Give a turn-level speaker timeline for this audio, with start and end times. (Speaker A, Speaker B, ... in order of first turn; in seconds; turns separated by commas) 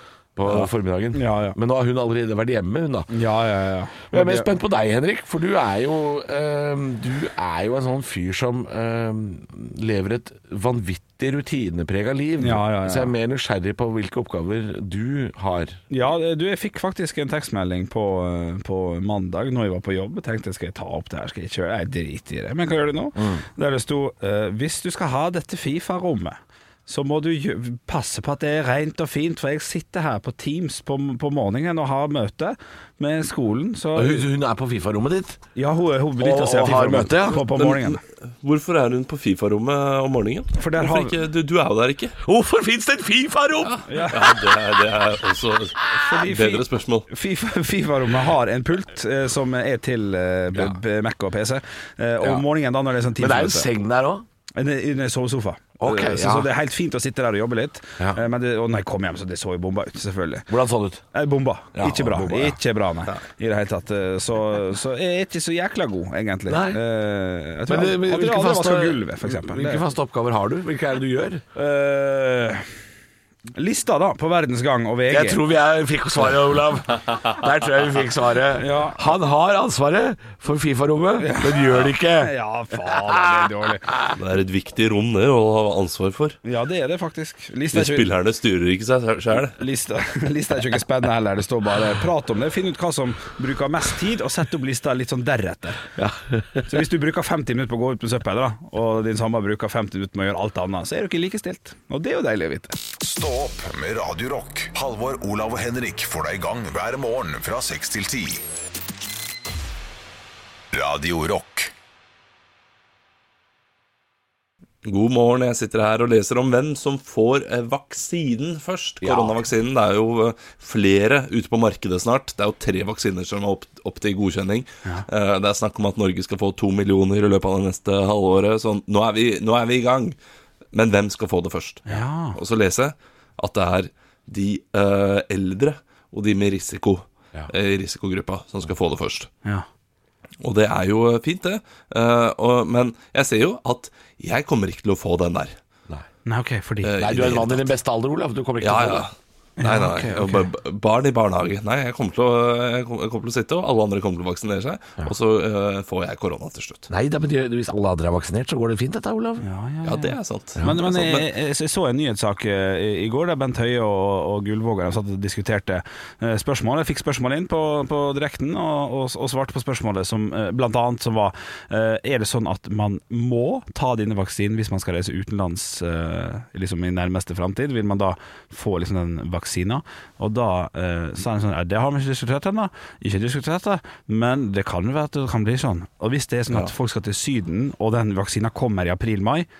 Speaker A: 0.3-3.1, Speaker B: 1.1-1.6, Speaker B: 3.1-4.5, Speaker A: 4.1-15.8, Speaker B: 12.4-13.1, Speaker B: 15.9-34.3, Speaker A: 23.2-23.4, Speaker A: 33.9-35.4, Speaker B: 35.5-38.0, Speaker A: 36.2-37.5, Speaker C: 37.5-42.1, Speaker B: 40.5-41.1, Speaker A: 42.2-44.6, Speaker C: 43.6-47.0, Speaker B: 43.9-44.4, Speaker B: 46.0-53.7, Speaker A: 53.2-54.2, Speaker B: 54.5-60.5, Speaker A: 55.8-56.5, Speaker A: 60.5-61.0, Speaker B: 61.1-69.8, Speaker A: 61.7-62.6, Speaker A: 66.5-66.8, Speaker A: 67.7-71.4, Speaker B: 71.5-72.7, Speaker B: 73.5-75.4, Speaker A: 75.1-84.2, Speaker B: 78.6-79.0, Speaker B: 81.2-83.9, Speaker C: 84.1-86.4, Speaker B: 86.4-88.1, Speaker C: 87.7-89.6, Speaker B: 89.5-95.8, Speaker A: 96.0-96.6, Speaker B: 96.7-102.8, Speaker D: 103.0-108.4, Speaker D: 110.7-111.7, Speaker C: 114.8-130.2, Speaker A: 119.0-119.4, Speaker C: 130.7-139.3, Speaker B: 131.9-132.4, Speaker C: 140.4-145.6, Speaker B: 146.2-147.0, Speaker C: 146.8-147.7, Speaker A: 147.0-149.1, Speaker C: 148.6-156.9, Speaker B: 149.6-150.4, Speaker A: 156.9-159.4, Speaker B: 159.4-189.5, Speaker C: 159.8-161.3